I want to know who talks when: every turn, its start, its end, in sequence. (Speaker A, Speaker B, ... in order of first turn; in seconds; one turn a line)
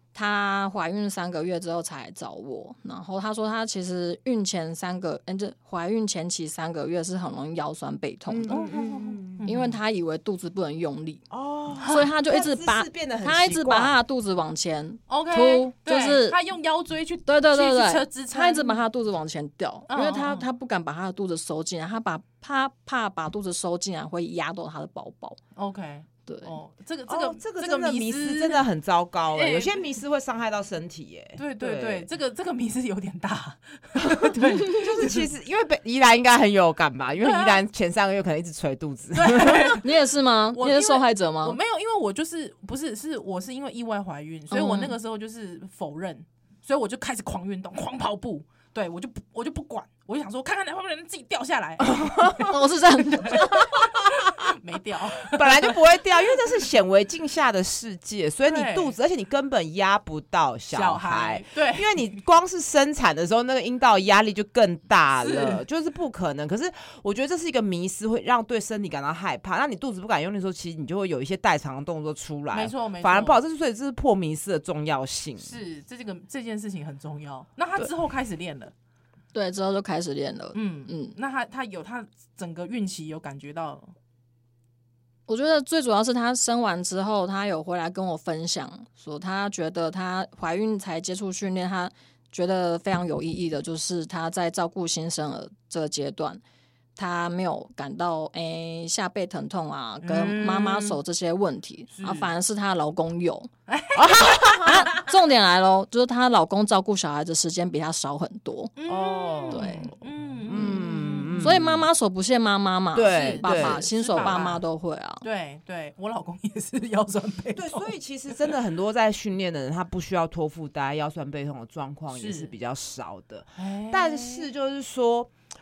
Speaker A: 0.1-8.7
Speaker B: 8.3-9.5
Speaker C: 8.5-9.8
Speaker A: 9.4-11.2
Speaker B: 11.3-14.0
Speaker C: 11.8-12.1
Speaker A: 11.9-16.4
Speaker C: 15.1-18.8
Speaker A: 17.3-25.4
Speaker C: 19.9-20.5
Speaker C: 25.6-28.7
Speaker A: 26.3-26.6
Speaker B: 27.1-32.1
Speaker C: 29.3-29.9
Speaker C: 31.4-35.3
Speaker B: 34.1-39.8
Speaker C: 37.2-37.6
Speaker C: 39.1-39.9
Speaker A: 39.8-41.6
Speaker C: 40.5-52.6
Speaker A: 44.5-44.9
Speaker B: 51.9-52.5
Speaker A: 52.5-53.8
Speaker C: 53.1-56.0
Speaker B: 55.2-75.6
Speaker C: 58.5-59.0
Speaker C: 60.7-62.0
Speaker C: 65.2-65.6
Speaker C: 72.5-73.4
Speaker C: 75.4-78.7
Speaker A: 79.3-81.2
Speaker C: 80.5-83.9
Speaker A: 85.3-96.4
Speaker A: 97.0-103.5
Speaker C: 100.0-101.0
Speaker C: 101.9-102.3
Speaker C: 103.7-105.1
Speaker B: 104.0-104.8
Speaker A: 104.6-108.7
Speaker C: 108.8-111.5
Speaker B: 108.9-111.9
Speaker A: 109.5-109.9
Speaker A: 110.5-115.2
Speaker B: 112.9-114.4
Speaker C: 113.1-114.6
Speaker C: 115.2-118.5
Speaker B: 117.6-125.3
Speaker C: 122.1-122.5
Speaker C: 123.6-124.5